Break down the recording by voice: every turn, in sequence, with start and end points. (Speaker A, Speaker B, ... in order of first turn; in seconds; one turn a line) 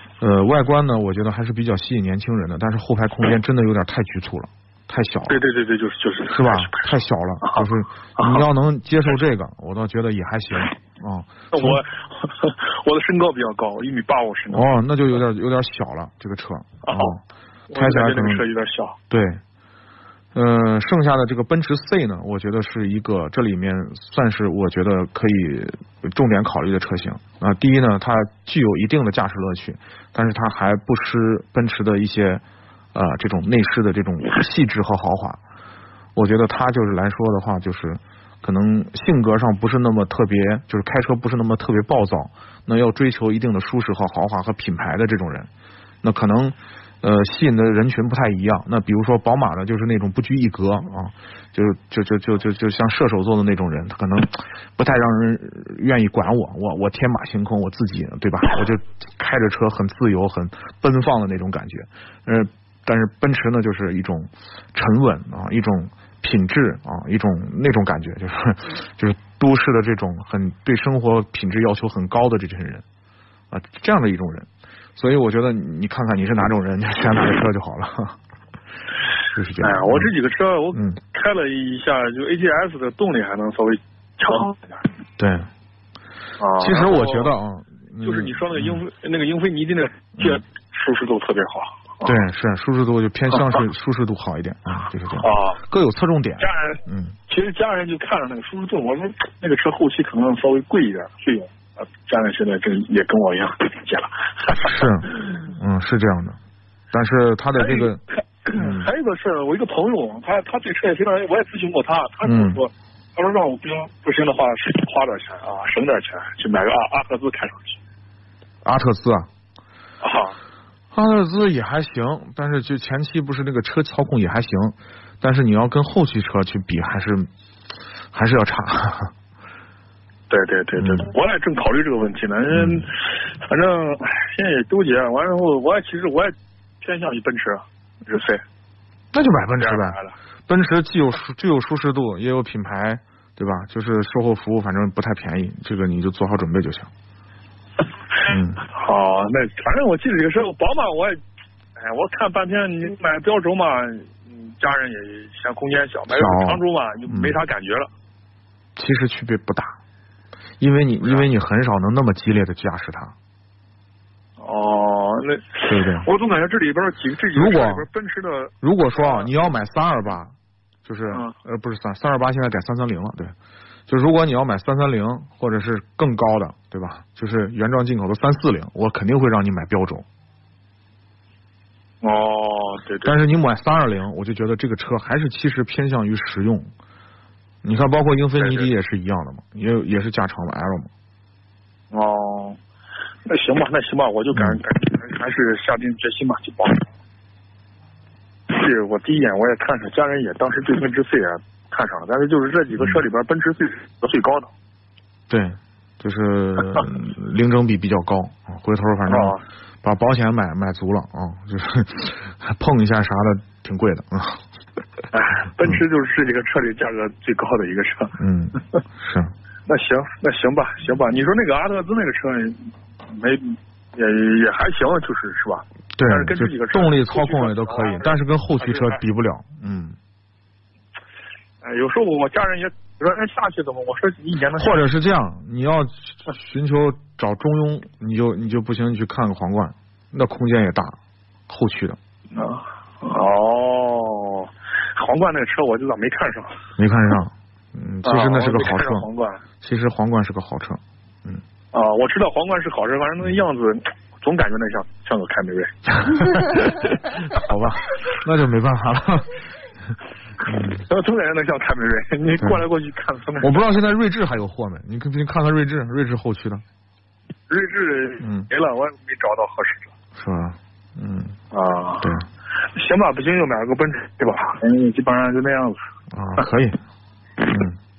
Speaker A: 0.2-5.4
Speaker B: 5.3-6.8
Speaker A: 6.3-11.8
Speaker B: 8.2-8.4
Speaker B: 11.5-14.7
Speaker A: 14.5-17.2
Speaker B: 16.8-17.2
Speaker B: 17.7-18.9
Speaker A: 17.7-18.4
Speaker A: 19.1-19.4
Speaker A: 20.3-32.4
Speaker A: 32.9-35.4
Speaker A: 36.1-45.5
Speaker A: 46.0-72.8
Speaker A: 73.5-78.2
Speaker A: 79.3-80.1
Speaker B: 79.6-84.8
Speaker A: 80.7-81.0
Speaker A: 85.2-85.5
Speaker B: 86.4-87.3
Speaker A: 86.6-88.8
Speaker B: 88.0-92.2
Speaker A: 92.0-97.1
Speaker B: 93.3-93.6
Speaker B: 95.2-95.6
Speaker B: 96.4-105.3
Speaker A: 104.6-106.4
Speaker A: 106.9-108.0
Speaker B: 107.5-117.8
Speaker A: 108.5-108.9
Speaker A: 112.2-112.6
Speaker A: 118.6-119.3
Speaker B: 120.0-120.3
Speaker A: 120.9-127.3
Speaker A: 128.1-129.1
Speaker B: 130.3-138.4
Speaker A: 130.8-131.1
Speaker A: 132.5-132.8
Speaker A: 139.1-146.9
Speaker B: 139.6-140.1
Speaker A: 148.2-148.6
Speaker B: 148.6-151.2
Speaker B: 151.8-157.9
Speaker A: 156.1-157.4
Speaker A: 158.8-159.7
Speaker A: 160.6-163.1
Speaker B: 161.0-161.3
Speaker B: 164.4-169.3
Speaker A: 165.6-166.1
Speaker A: 167.3-167.9
Speaker A: 168.6-170.3
Speaker A: 170.8-173.3
Speaker A: 173.9-180.0
Speaker B: 182.0-183.1
Speaker A: 183.0-186.7
Speaker A: 187.6-190.9
Speaker B: 188.4-188.7
Speaker B: 191.9-192.6
Speaker B: 193.2-196.9
Speaker A: 194.3-194.6
Speaker B: 198.5-204.5
Speaker A: 205.3-214.4
Speaker B: 209.1-209.4
Speaker B: 215.1-218.2
Speaker A: 218.2-219.3
Speaker B: 219.7-229.0
Speaker A: 225.9-230.0
Speaker B: 231.6-234.9
Speaker A: 234.6-241.0
Speaker A: 241.5-242.0
Speaker B: 242.3-246.6
Speaker A: 246.8-249.1
Speaker B: 248.0-249.4
Speaker A: 249.6-251.4
Speaker B: 251.7-256.8
Speaker A: 256.0-259.5
Speaker A: 260.4-260.8
Speaker B: 260.8-263.6
Speaker A: 263.4-266.6
Speaker B: 267.5-269.9
Speaker A: 268.2-268.5
Speaker A: 270.1-271.4
Speaker B: 271.5-272.2
Speaker B: 272.7-275.8
Speaker A: 276.1-276.8
Speaker A: 277.5-277.8